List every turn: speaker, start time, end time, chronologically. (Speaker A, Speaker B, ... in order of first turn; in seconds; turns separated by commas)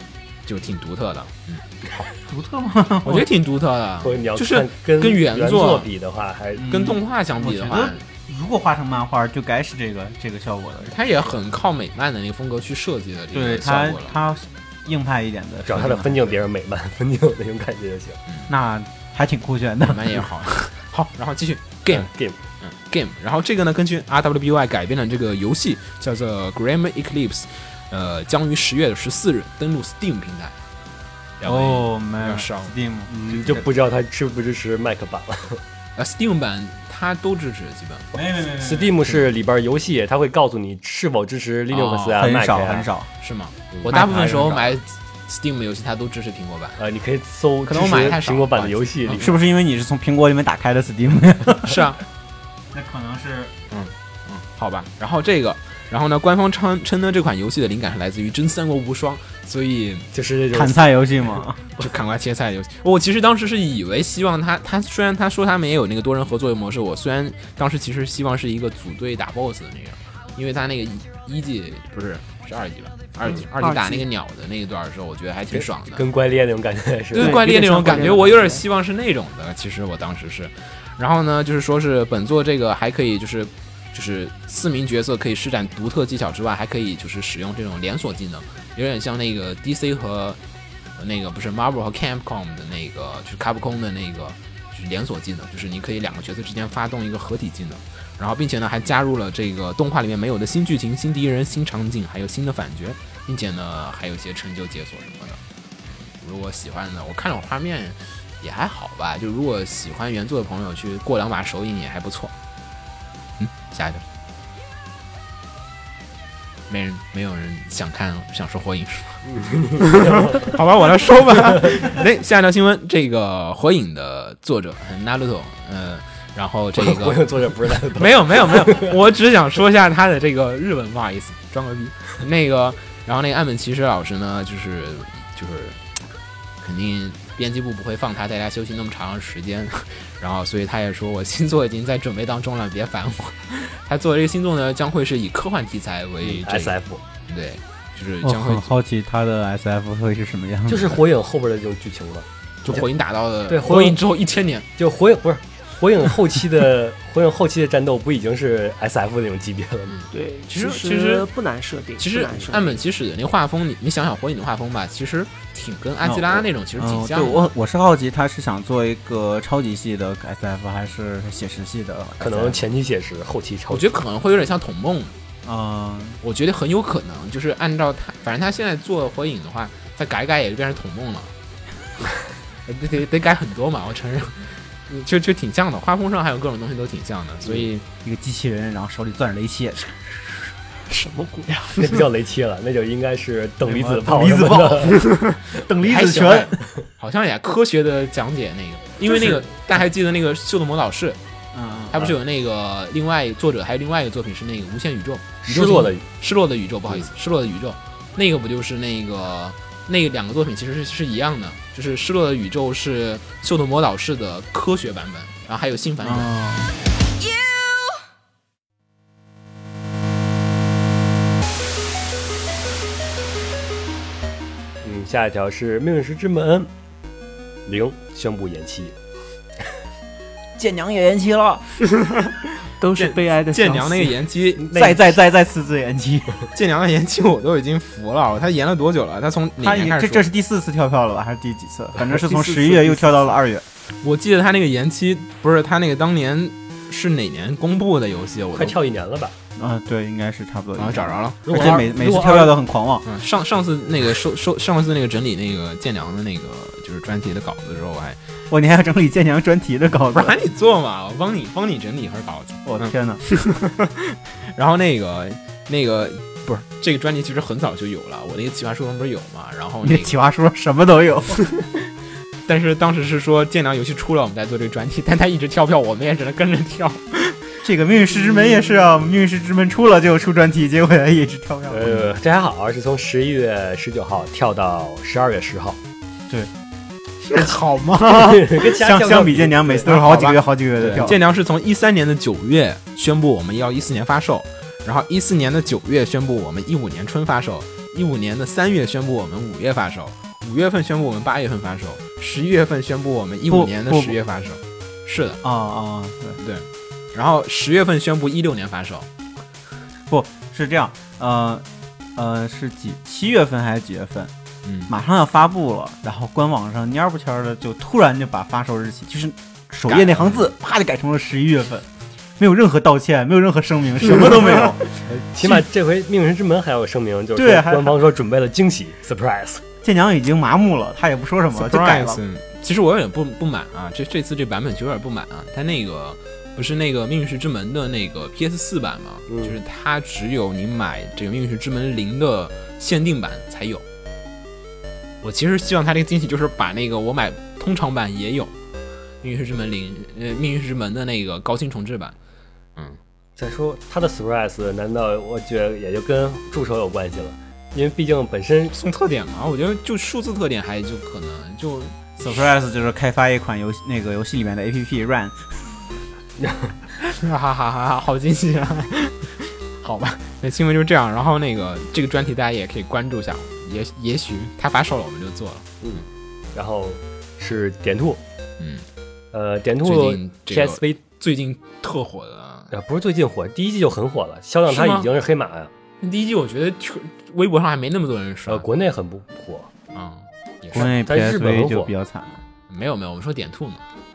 Speaker A: 0.5-2.0, Speaker B: 2.2-3.3, Speaker A: 3.0-5.9, Speaker C: 4.0-6.8, Speaker B: 6.6-11.0, Speaker A: 6.7-8.0, Speaker A: 10.9-14.1, Speaker B: 13.3-16.3, Speaker C: 15.7-18.2, Speaker B: 18.5-20.2, Speaker A: 19.8-22.1, Speaker C: 21.9-22.4, Speaker A: 22.6-30.6, Speaker A: 31.4-32.7, Speaker B: 31.4-33.7, Speaker C: 33.1-35.6, Speaker A: 36.0-38.1, Speaker B: 38.1-39.3, Speaker C: 38.5-42.9, Speaker A: 41.7-42.2, Speaker B: 42.2-43.1, Speaker A: 43.2-46.8, Speaker B: 43.9-44.8, Speaker C: 46.8-49.4, Speaker A: 47.7-49.2, Speaker B: 49.2-51.8, Speaker A: 51.6-52.0, Speaker B: 52.7-53.5, Speaker A: 53.7-60.1, Speaker C: 60.1-61.9, Speaker B: 60.5-61.6, Speaker A: 61.8-76.0, Speaker D: 73.5-74.0, Speaker C: 75.5-78.0, Speaker A: 77.1-90.4, Speaker D: 77.2-78.6, Speaker A: 91.0-105.4, Speaker A: 106.2-112.3, Speaker A: 113.4-114.0, Speaker A: 116.7-127.3, Speaker C: 119.3-120.5, Speaker C: 126.8-128.9, Speaker A: 127.9-135.8, Speaker A: 136.6-148.7, Speaker C: 146.2-147.0, Speaker B: 148.2-151.0, Speaker C: 150.7-152.8, Speaker A: 152.6-154.7, Speaker C: 153.5-154.0, Speaker C: 154.8-160.0, Speaker A: 159.9-161.3, Speaker D: 160.1-162.8, Speaker A: 162.0-167.5, Speaker B: 166.0-172.7, Speaker C: 172.2-173.9, Speaker A: 173.7-175.1, Speaker B: 175.4-176.2, Speaker A: 176.2-181.3, Speaker A: 182.7-187.8, Speaker B: 188.0-190.4, Speaker D: 190.9-192.0, Speaker C: 191.7-195.0, Speaker B: 193.7-196.6, Speaker A: 195.8-201.2, Speaker B: 201.5-202.0, Speaker A: 201.9-216.3, Speaker C: 205.4-206.0, Speaker B: 216.0-216.7, Speaker C: 224.8-226.7, Speaker C: 227.7-228.9, Speaker B: 230.6-231.8, Speaker D: 232.8-234.2, Speaker A: 233.0-234.9, Speaker C: 234.7-235.0, Speaker B: 234.7-236.4, Speaker A: 236.5-240.2, Speaker B: 239.6-243.7, Speaker D: 242.1-243.1, Speaker A: 244.0-248.8, Speaker C: 248.6-249.3, Speaker B: 249.6-253.1, Speaker A: 250.8-251.8, Speaker C: 251.5-252.6, Speaker A: 253.1-258.2, Speaker B: 258.5-260.3, Speaker A: 260.1-270.2, Speaker B: 262.6-263.2, Speaker B: 269.8-271.4, Speaker A: 272.5-277.2, Speaker B: 277.6-282.1, Speaker C: 281.7-285.8, Speaker A: 287.2-288.6, Speaker C: 288.1-289.9, Speaker B: 288.5-291.2, Speaker A: 289.9-305.4, Speaker B: 303.5-304.2, Speaker B: 305.4-306.4, Speaker A: 306.4-309.1, Speaker B: 310.1-314.3, Speaker A: 314.6-314.9, Speaker B: 314.9-321.9, Speaker A: 319.9-320.5, Speaker B: 322.4-324.8, Speaker C: 325.1-329.6, Speaker B: 327.4-328.0, Speaker B: 329.8-332.2, Speaker A: 331.6-343.8, Speaker C: 339.3-339.6, Speaker A: 345.2-348.6, Speaker A: 349.2-352.1, Speaker C: 353.4-358.8, Speaker A: 358.8-362.5, Speaker B: 362.2-365.5, Speaker C: 366.4-366.7, Speaker A: 367.1-375.7, Speaker C: 375.8-378.2, Speaker A: 378.6-378.9, Speaker C: 379.3-381.0, Speaker A: 379.8-382.7, Speaker C: 382.7-385.7, Speaker A: 384.7-385.1, Speaker A: 386.0-388.7, Speaker C: 388.5-389.7, Speaker A: 389.9-390.9, Speaker B: 390.7-392.4, Speaker C: 390.7-391.9, Speaker A: 392.7-393.8